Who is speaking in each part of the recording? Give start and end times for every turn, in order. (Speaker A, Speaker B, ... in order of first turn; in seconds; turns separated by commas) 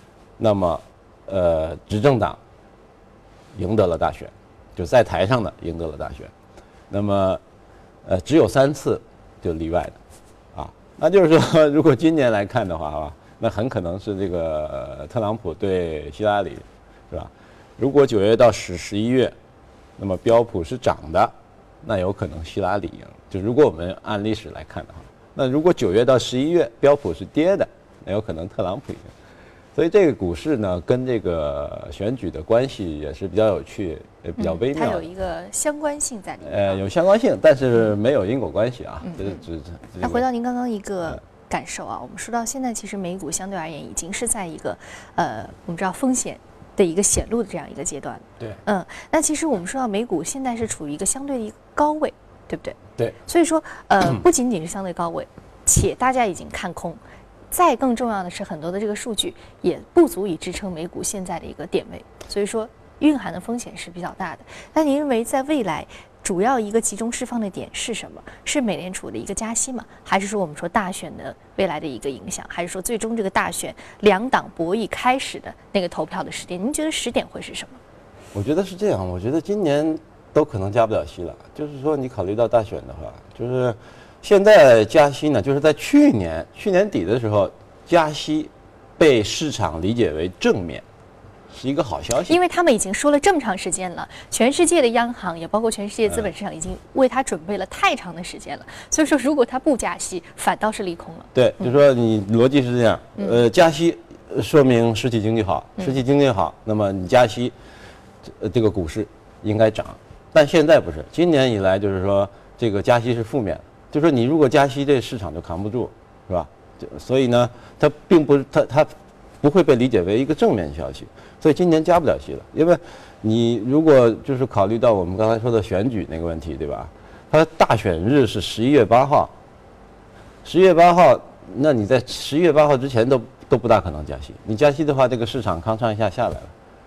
Speaker A: 0.4-2.4, Speaker A: 3.6-6.3, Speaker A: 6.9-7.4, Speaker A: 8.1-10.0, Speaker A: 10.5-19.4, Speaker A: 20.0-29.1, Speaker A: 29.8-35.0, Speaker B: 34.4-36.8, Speaker A: 36.4-40.2, Speaker B: 40.0-57.0, Speaker B: 57.5-77.8, Speaker A: 78.3-90.8, Speaker A: 91.5-92.4, Speaker B: 92.3-101.3, Speaker A: 101.3-107.5, Speaker A: 108.2-129.3, Speaker A: 130.4-136.5